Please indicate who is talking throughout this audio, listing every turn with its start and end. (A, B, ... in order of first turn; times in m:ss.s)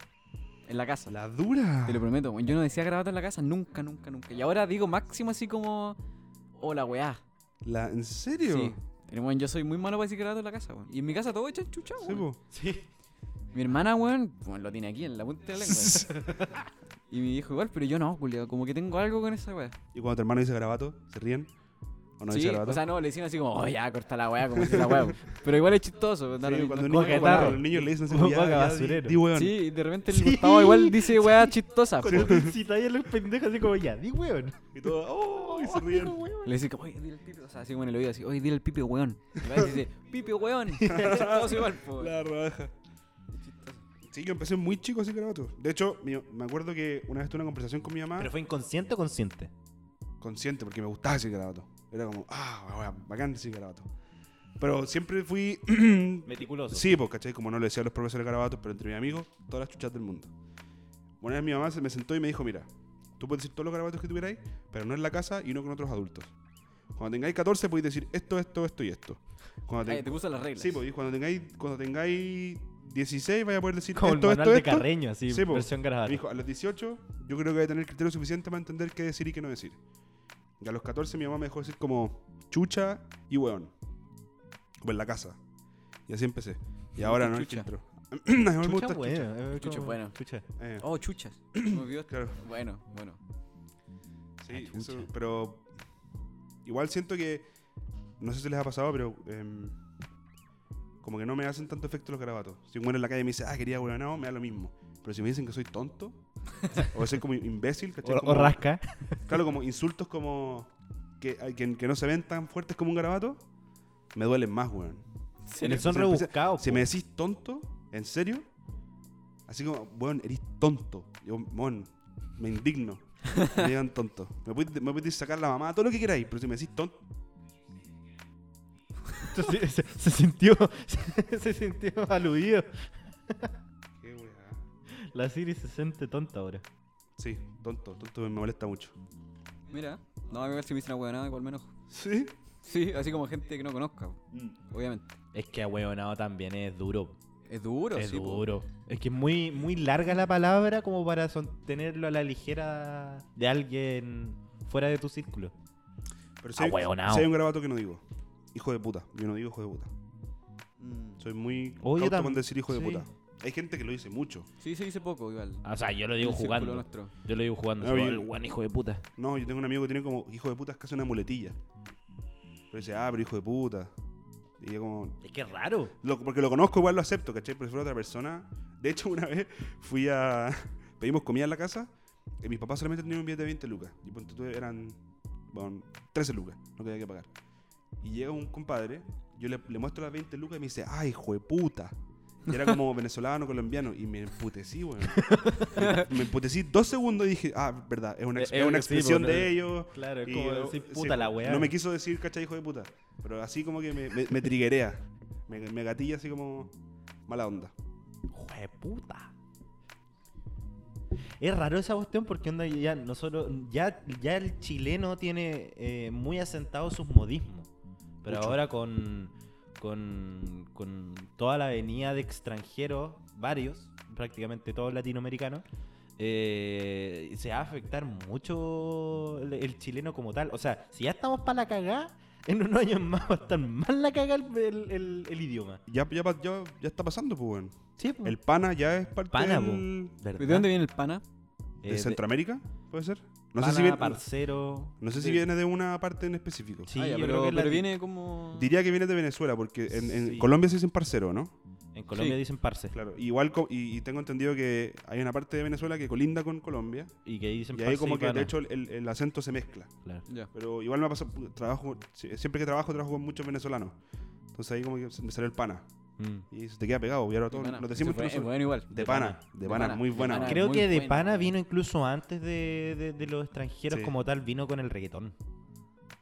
0:00.6-0:01.1 A
0:01.1-0:02.1 B
0:01.8-0:06.0 A
0:06.6-0:07.2 A
0:07.6-0:08.8 B
0:08.4-0:12.2 A
0:12.0-0:12.4 B
0:12.5-0:12.8 C
0:13.5-0:16.2 A
0:15.6-0:16.1 B
0:16.1-0:16.5 C
0:17.1-0:19.7 A
0:19.9-0:21.5 B
0:22.2-0:22.8 B
0:22.3-0:27.6 A
0:24.6-0:25.0 B
0:26.4-0:29.6 B
0:26.9-0:29.2 C
0:29.3-0:32.4 A
0:30.1-0:34.7 C
0:32.0-0:32.5 B
0:34.7-0:36.2 B
0:35.3-0:36.5 C
0:36.4-0:42.1 A
0:40.9-0:42.7 B
0:43.4-0:43.8 A
0:44.1-0:48.3 B
0:48.2-0:49.5 C
0:50.2-0:53.9 B
0:54.6-1:00.3 B
0:56.2-0:56.9 C
1:01.2-1:06.3 B
1:06.9-1:19.8 B
1:09.8-1:10.8 A
1:14.0-1:16.2 C
1:20.6-1:23.7 B
1:24.8-1:25.4 B
1:26.1-1:29.3 B
1:27.0-1:27.7 A
1:28.6-1:30.4 C
1:29.5-1:30.2 A
1:30.6-1:30.8 B
1:30.8-1:33.2 A
1:31.5-1:32.4 B
1:34.4-1:35.7 B
1:34.5-1:35.1 C
1:36.6-1:37.5 B
1:38.2-1:39.8 B
1:41.0-1:46.2 B
1:46.7-1:48.6 B
1:48.0-1:49.2 C
1:49.2-1:53.4 B
1:54.1-1:55.0 B
1:55.5-1:55.8 A
1:55.6-1:58.4 B
1:55.6-1:56.9 C
1:59.5-2:07.0 B
2:09.3-2:12.7 C
2:14.0-2:14.6 B
2:15.1-2:16.6 C
2:17.2-2:18.9 B
2:19.7-2:21.7 A
2:21.9-2:22.3 B
2:22.6-2:25.1 A
2:25.3-2:27.2 C
2:27.5-2:28.5 A
2:27.9-2:35.5 C
2:36.4-2:38.0 B
2:36.6-2:37.3 C
2:38.5-2:39.9 B
2:40.8-2:41.2 A
2:41.2-2:44.5 B
2:41.8-2:43.0 C
2:44.6-2:45.6 A
2:45.6-2:49.0 C
2:46.2-2:47.1 A
2:47.8-2:48.3 B
2:49.2-2:51.6 B
2:52.7-2:53.9 B
2:54.6-2:55.2 B
2:55.2-2:55.9 C
2:56.0-3:07.3 B
3:08.0-3:12.0 B
3:12.5-3:26.7 B
3:15.1-3:15.7 C
3:15.8-3:16.0 A
3:18.4-3:21.7 C
3:27.3-3:27.7 B
3:28.3-3:29.3 C
3:31.4-3:37.7 C
3:38.2-3:45.6 C
3:38.3-3:38.6 B
3:46.2-3:55.8 C
3:55.9-4:00.1 B
3:58.0-3:58.4 C
3:59.3-4:00.7 C
4:00.4-4:01.2 A
4:01.8-4:02.2 C
4:01.8-4:04.2 B
4:03.6-4:05.0 C
4:05.0-4:06.9 B
4:06.9-4:07.9 C
4:06.9-4:08.7 A
4:08.5-4:11.5 B
4:09.9-4:10.5 C
4:11.9-4:12.9 C
4:12.9-4:17.1 B
4:17.2-4:18.5 C
4:17.7-4:19.9 B
4:20.5-4:24.0 B
4:24.5-4:25.8 B
4:26.2-4:26.4 C
4:26.5-4:30.6 B
4:27.5-4:31.5 A
4:29.0-4:29.4 C
4:30.3-4:35.3 C
4:33.9-4:34.1 B